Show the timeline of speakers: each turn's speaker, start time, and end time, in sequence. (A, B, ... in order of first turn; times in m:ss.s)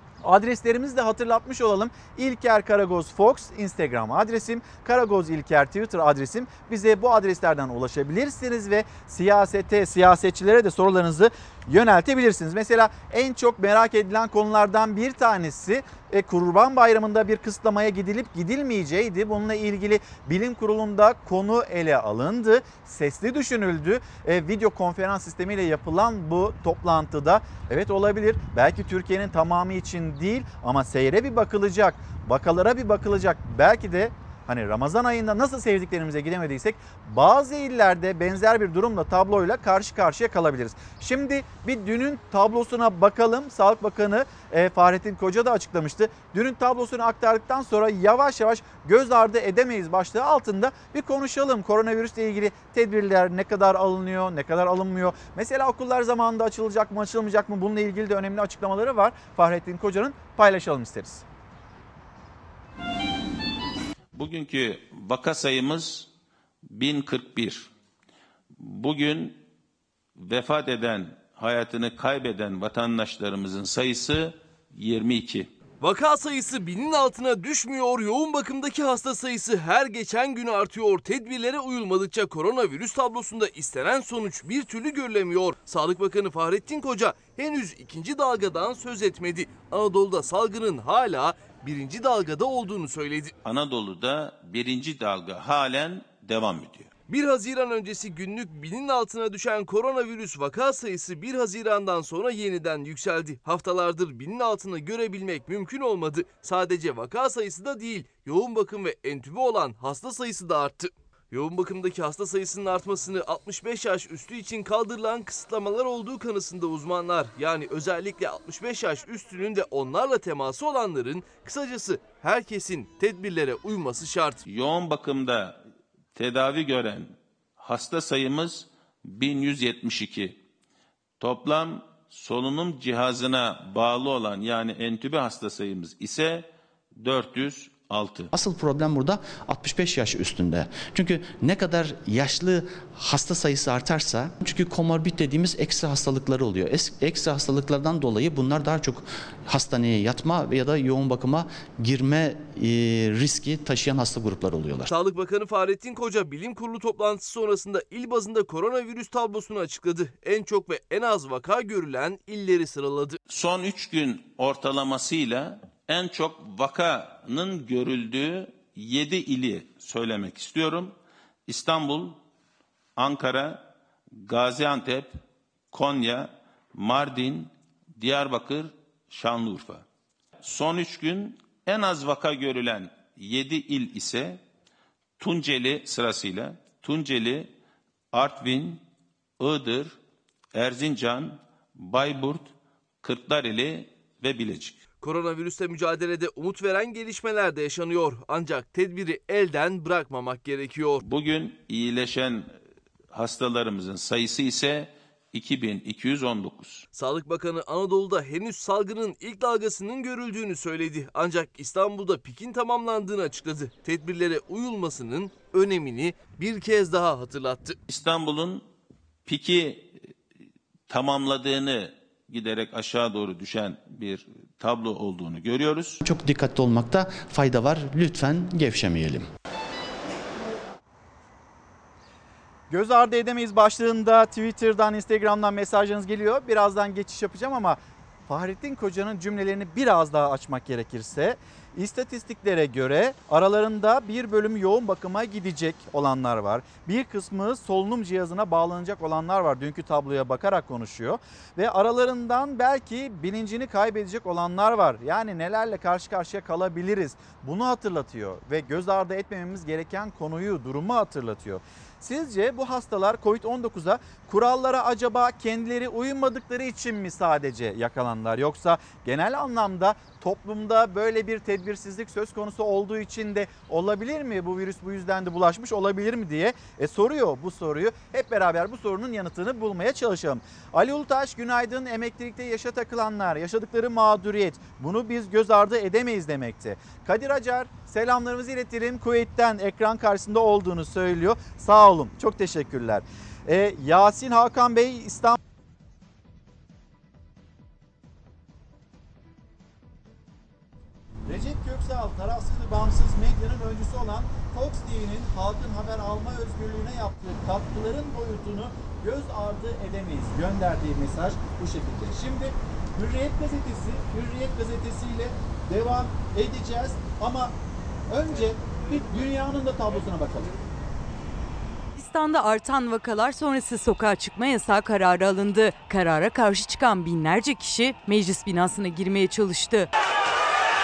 0:00.2-1:01.2 A
1:04.1-1:06.1 B
1:06.7-1:07.7 B
1:08.6-1:09.4 B
1:10.2-1:15.5 B
1:15.8-1:33.3 C
1:33.4-1:36.9 B
1:37.1-2:04.4 C
2:04.5-2:05.6 B
2:06.2-2:10.4 B
2:11.2-2:18.3 B
2:18.3-2:34.9 D
2:34.9-2:43.2 C
2:43.3-2:50.9 B
2:51.5-2:52.2 B
2:53.0-2:53.7 B
2:54.2-2:55.2 B
2:55.7-2:59.8 B
3:00.4-3:04.4 B
3:05.2-3:07.5 B
3:08.1-3:08.8 B
3:09.4-3:10.0 B
3:10.6-3:12.5 B
3:13.0-3:14.8 B
3:15.0-3:21.0 C
3:21.0-3:22.5 B
3:23.1-3:26.8 B
3:26.9-3:37.8 C
3:37.9-3:38.6 B
3:39.3-3:40.0 B
3:40.9-3:46.0 B
3:46.0-3:49.3 D
3:52.7-4:55.4 A
5:01.3-5:17.5 A
5:18.1-5:20.5 A
5:22.0-5:29.9 E